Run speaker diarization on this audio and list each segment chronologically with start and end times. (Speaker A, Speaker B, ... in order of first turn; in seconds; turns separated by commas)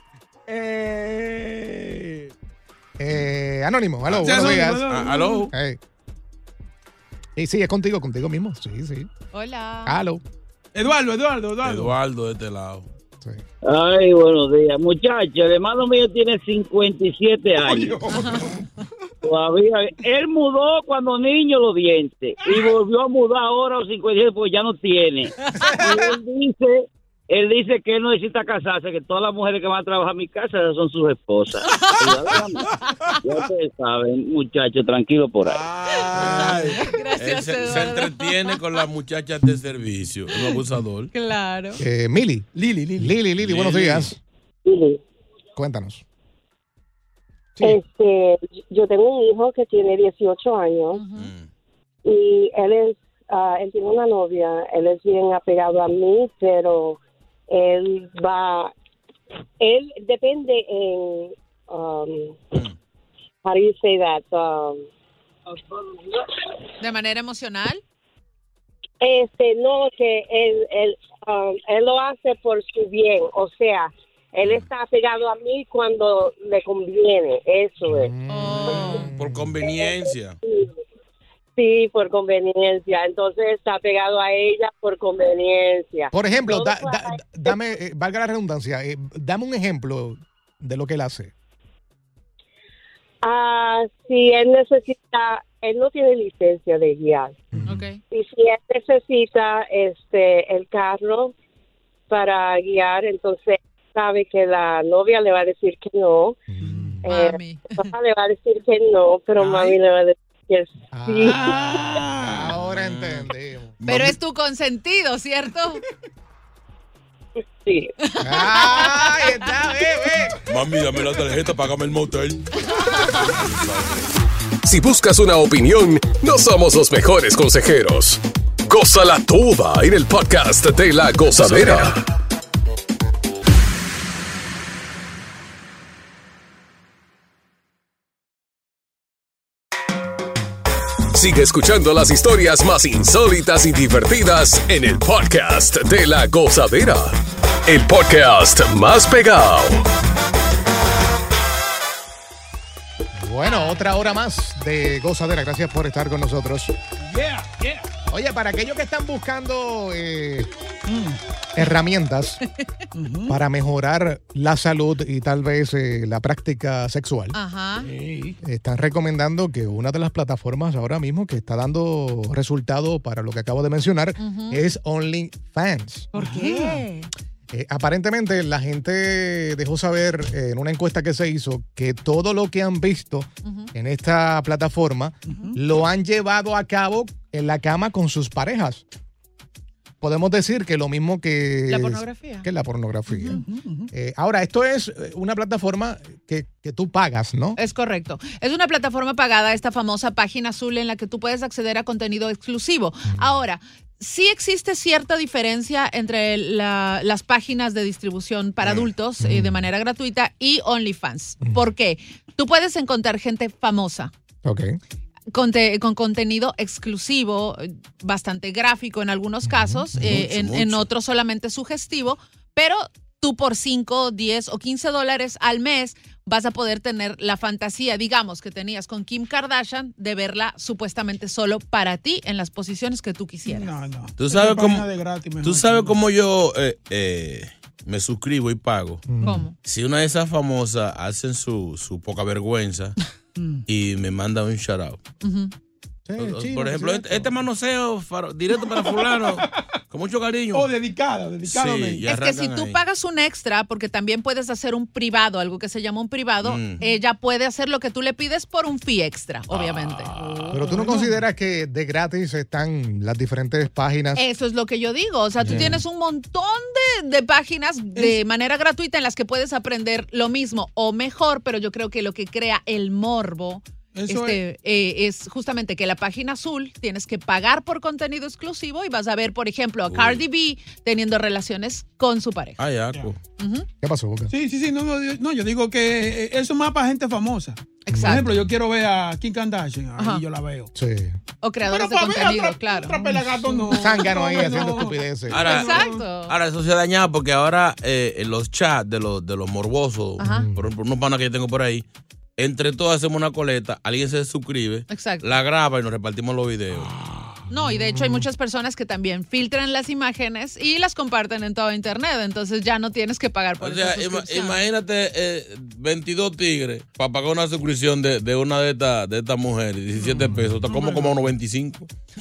Speaker A: 0.5-2.3, Speaker B: 3.0-5.8, Speaker C: 4.1-5.5, Speaker A: 4.2-5.5, Speaker B: 7.4-9.1, Speaker D: 9.3-10.0, Speaker B: 9.9-10.2, Speaker A: 10.7-11.9, Speaker C: 11.6-12.9, Speaker E: 13.6-18.1, Speaker A: 17.6-18.9, Speaker D: 18.1-18.5, Speaker E: 19.2-35.6, Speaker A: 22.4-22.7, Speaker A: 32.6-33.1, Speaker D: 32.8-33.1, Speaker C: 35.4-41.1, Speaker D: 35.9-38.6, Speaker D: 41.1-41.8, Speaker B: 41.8-44.2, Speaker A: 42.5-43.2, Speaker C: 43.4-44.1, Speaker F: 44.6-45.0, Speaker B: 45.6-46.0, Speaker F: 47.6-51.0, Speaker D: 50.9-51.3, Speaker C: 51.2-51.5, Speaker F: 52.0-58.7, Speaker F: 59.6-62.6, Speaker F: 63.4-64.8, Speaker F: 65.5-66.3, Speaker D: 66.8-67.8, Speaker F: 69.0-78.1, Speaker B: 77.9-79.6, Speaker D: 78.3-79.1, Speaker F: 78.7-79.1, Speaker C: 79.0-80.4, Speaker F: 79.6-80.7, Speaker F: 81.6-87.5, Speaker B: 86.1-91.3, Speaker F: 93.2-97.4, Speaker B: 97.5-97.9, Speaker D: 97.7-98.0, Speaker F: 98.1-101.3, Speaker F: 102.1-106.4, Speaker B: 106.5-107.0, Speaker A: 106.6-107.0, Speaker F: 107.0-111.6, Speaker D: 107.1-107.9, Speaker A: 109.4-109.7, Speaker B: 110.9-111.6, Speaker A: 111.2-112.5, Speaker B: 112.2-113.8, Speaker C: 112.5-113.3, Speaker C: 113.8-114.2, Speaker D: 113.8-115.8, Speaker F: 117.6-117.9, Speaker D: 118.0-119.5, Speaker B: 118.2-120.4, Speaker C: 120.5-124.1, Speaker D: 122.7-123.3, Speaker G: 124.6-132.0, Speaker C: 131.5-131.8, Speaker G: 141.1-149.8, Speaker B: 153.2-156.8, Speaker D: 153.4-153.8, Speaker A: 157.0-157.9, Speaker B: 158.1-160.5, Speaker A: 160.9-161.2, Speaker B: 161.6-162.4, Speaker A: 162.9-163.4, Speaker B: 163.3-167.4, Speaker D: 167.3-167.9, Speaker A: 167.8-168.4, Speaker B: 168.4-176.1, Speaker D: 174.2-174.6, Speaker D: 176.1-177.1, Speaker A: 176.2-176.8, Speaker B: 177.5-188.8, Speaker D: 183.4-183.7, Speaker A: 185.3-185.6, Speaker B: 190.0-197.6, Speaker D: 191.7-192.5, Speaker D: 193.1-193.4, Speaker A: 193.3-193.9, Speaker D: 197.6-214.1, Speaker B: 209.2-209.6, Speaker B: 214.4-214.8, Speaker D: 215.3-233.7, Speaker B: 219.5-220.1, Speaker C: 219.9-220.9, Speaker A: 233.4-236.0, Speaker C: 234.2-239.1, Speaker B: 239.1-239.4, Speaker D: 239.2-239.6, Speaker C: 239.6-243.0, Speaker A: 243.4-243.7, Speaker C: 243.7-245.0, Speaker D: 245.2-245.5, Speaker B: 246.1-247.3, Speaker C: 246.2-250.7, Speaker A: 249.0-249.6, Speaker A: 250.5-252.1, Speaker C: 251.5-252.8, Speaker D: 252.1-260.2, Speaker C: 256.4-256.8, Speaker C: 259.5-260.3, Speaker A: 260.1-261.2, Speaker B: 260.5-264.2, Speaker D: 264.2-282.6, Speaker B: 265.4-265.8, Speaker A: 273.9-274.4, Speaker C: 279.9-280.2, Speaker C: 282.6-283.2, Speaker D: 283.4-283.7, Speaker B: 283.8-284.3, Speaker A: 284.3-290.7, Speaker D: 287.9-288.3, Speaker B: 287.9-288.5, Speaker D: 290.0-290.2, Speaker B: 290.8-291.2, Speaker D: 291.4-293.7, Speaker A: 291.6-296.1, Speaker B: 293.7-295.4, Speaker C: 295.3-301.9, Speaker D: 295.3-296.4, Speaker D: 300.2-300.5, Speaker B: 300.2-300.7, Speaker C: 302.4-306.9, Speaker D: 304.9-305.3, Speaker D: 307.5-314.6, Speaker B: 307.5-308.3, Speaker C: 313.6-321.9, Speaker A: 320.0-321.3, Speaker B: 320.3-320.6